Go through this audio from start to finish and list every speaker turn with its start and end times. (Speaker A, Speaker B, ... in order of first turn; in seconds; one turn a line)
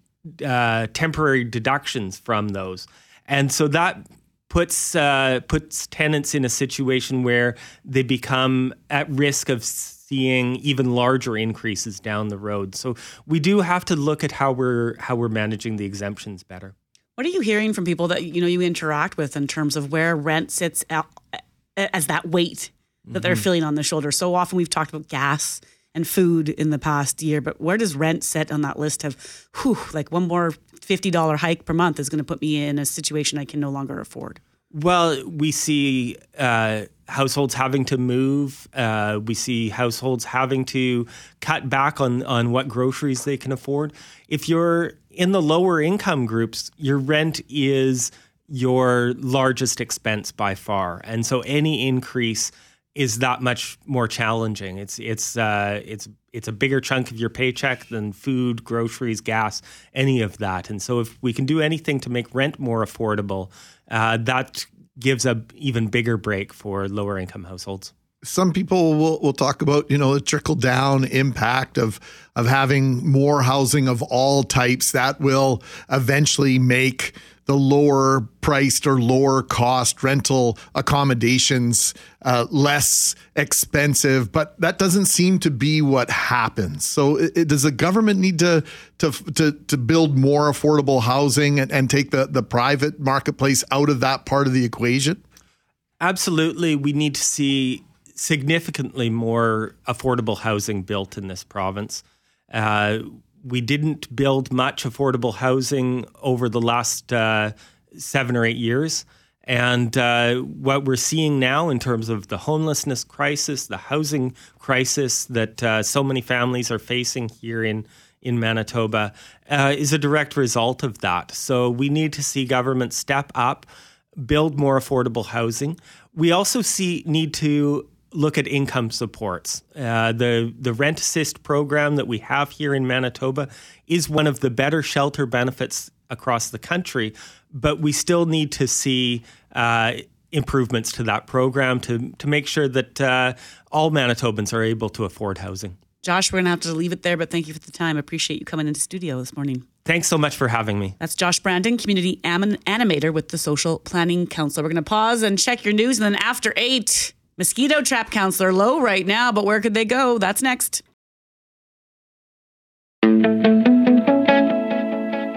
Speaker A: 0.4-16.7
Speaker B: 17.2-34.4
Speaker A: 23.1-23.5
Speaker A: 34.7-67.9
Speaker C: 68.2-95.2
Speaker A: 96.0-145.8
Speaker B: 146.0-149.7
Speaker A: 149.8-151.0
Speaker B: 151.0-160.8